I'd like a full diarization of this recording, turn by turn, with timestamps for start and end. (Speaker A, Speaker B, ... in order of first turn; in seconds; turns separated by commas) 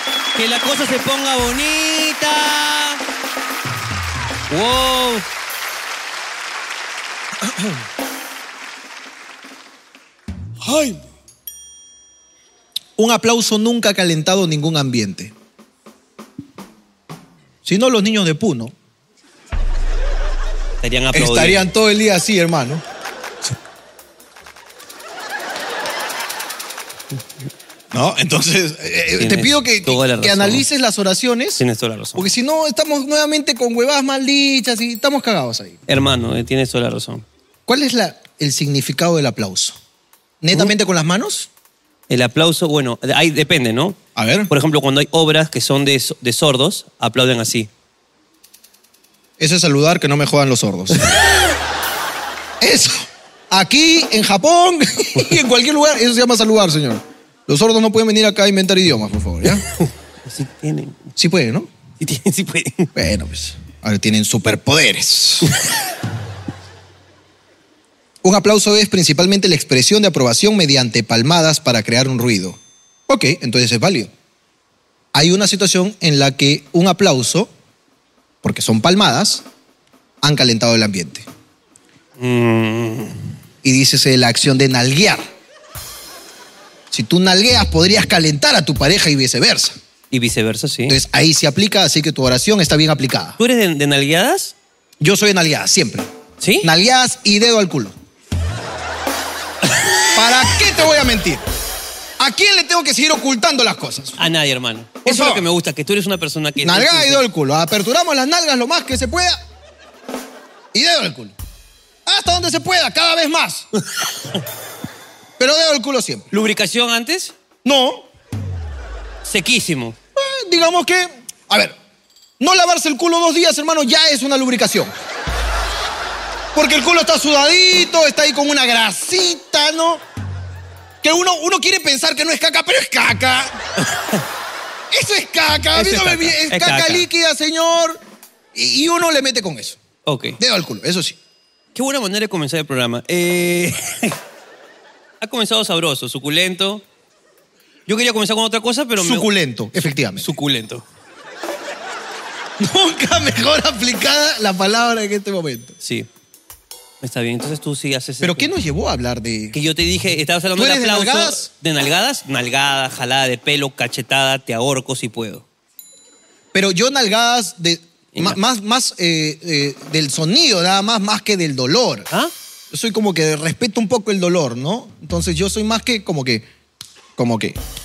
Speaker A: 0.4-3.0, Speaker A: 4.5-5.3, Speaker A: 10.7-11.0, Speaker B: 13.0-15.3, Speaker B: 17.6-18.7, Speaker A: 20.8-21.7, Speaker B: 21.1-22.8, Speaker B: 27.9-31.6, Speaker A: 29.2-30.6, Speaker A: 31.6-32.3, Speaker B: 32.1-35.8, Speaker A: 35.9-37.2, Speaker B: 37.7-39.8, Speaker B: 40.4-41.5, Speaker A: 42.1-44.0, Speaker B: 44.2-44.5, Speaker A: 44.5-47.7, Speaker B: 49.4-51.2, Speaker B: 52.6-59.6, Speaker A: 59.5-61.1, Speaker B: 61.2-61.7, Speaker A: 62.0-62.9, Speaker B: 63.0-65.5, Speaker B: 68.2-74.1, Speaker B: 75.1-77.5, Speaker B: 78.4-79.5, Speaker B: 80.2-81.3, Speaker A: 82.2-83.3, Speaker B: 83.6-85.3, Speaker B: 86.9-89.8, Speaker A: 90.1-91.0, Speaker B: 90.9-93.4, Speaker A: 93.4-94.5, Speaker B: 95.0-96.1, Speaker A: 96.4-96.7, Speaker B: 96.6-98.0, Speaker A: 99.7-100.4, Speaker B: 100.1-101.5, Speaker B: 102.2-104.2, Speaker A: 104.2-107.2, Speaker B: 105.0-105.5, Speaker B: 106.6-109.4, Speaker B: 110.7-111.3, Speaker B: 112.1-113.7, Speaker B: 115.4-116.3, Speaker A: 116.3-117.3, Speaker B: 117.6-118.1, Speaker A: 119.2-120.0, Speaker B: 120.2-121.8, Speaker B: 122.4-124.9, Speaker B: 126.5-130.0, Speaker B: 131.0-133.6, Speaker A: 133.9-134.2, Speaker B: 134.9-138.0, Speaker A: 135.7-137.1, Speaker B: 138.5-139.8, Speaker A: 140.1-140.4, Speaker B: 140.4-141.2, Speaker A: 141.8-144.2, Speaker A: 145.2-146.8, Speaker A: 147.9-149.3, Speaker B: 149.0-150.3, Speaker A: 150.2-150.8, Speaker B: 152.6-155.8, Speaker A: 155.8-156.1, Speaker A: 157.0-158.5, Speaker B: 158.2-159.6, Speaker A: 159.5-165.4, Speaker B: 160.6-161.5, Speaker B: 166.5-172.1, Speaker B: 172.7-176.4, Speaker B: 177.2-177.6